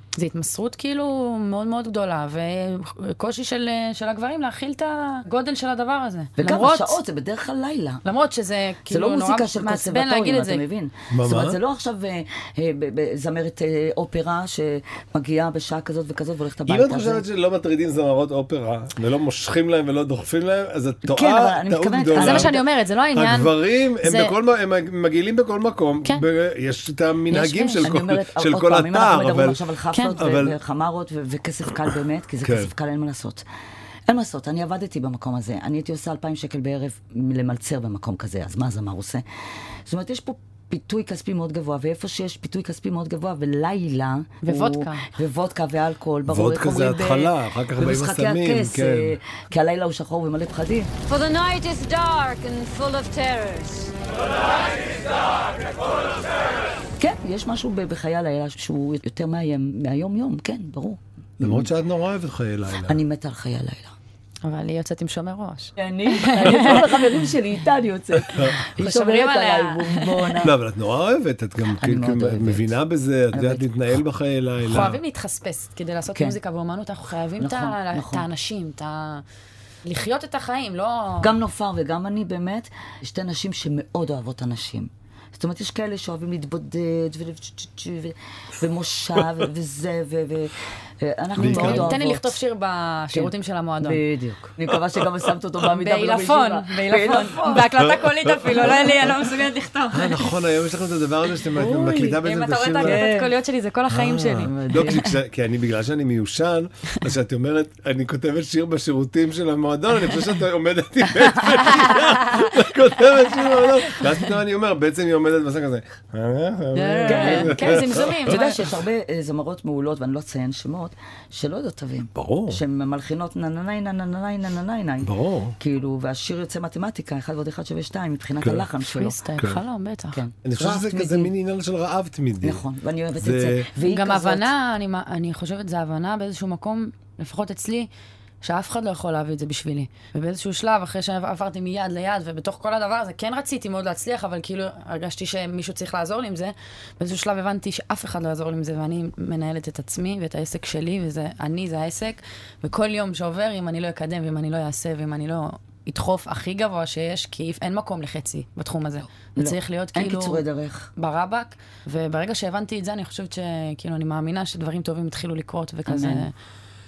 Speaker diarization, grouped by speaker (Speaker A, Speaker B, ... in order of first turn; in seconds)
Speaker A: 0.2-7.0, 8.0-10.6, 22.1-24.3, 27.3-27.9, 29.9-30.2, 44.4-45.1, 64.4-66.9, 68.8-70.4, 74.6-79.2, 79.8-81.3, 91.4-94.0, 95.6-100.3, 101.5-105.0, 116.7-118.6, 128.9-130.2, 133.8-137.9, 138.4-160.4, 161.0-166.3
Speaker B: 6.4-8.0, 8.9-17.3, 21.1-22.6, 27.8-33.4, 34.1-39.2, 39.9-50.9, 57.0-61.7, 62.8-63.9, 65.8-70.5, 71.8-72.8, 73.3-73.7, 77.4-78.3, 81.2-92.4, 93.1-98.0, 98.5-99.2, 102.8-103.3, 104.4-105.1, 117.0-129.2, 130.1-131.3, 132.4-134.5, 159.4-160.9, 165.9-166.3
Speaker C: 11.1-11.6, 16.7-22.6, 23.1-29.6, 30.2-30.6, 32.4-32.7, 46.3-49.2, 61.4-63.0, 68.3-68.6, 70.4-75.0, 91.4-92.0, 97.8-99.0, 99.9-103.1, 103.9-118.4, 122.2-122.6, 125.0-125.6, 128.4-128.7, 130.4-132.7, 133.2-133.7
Speaker D: 51.1-53.9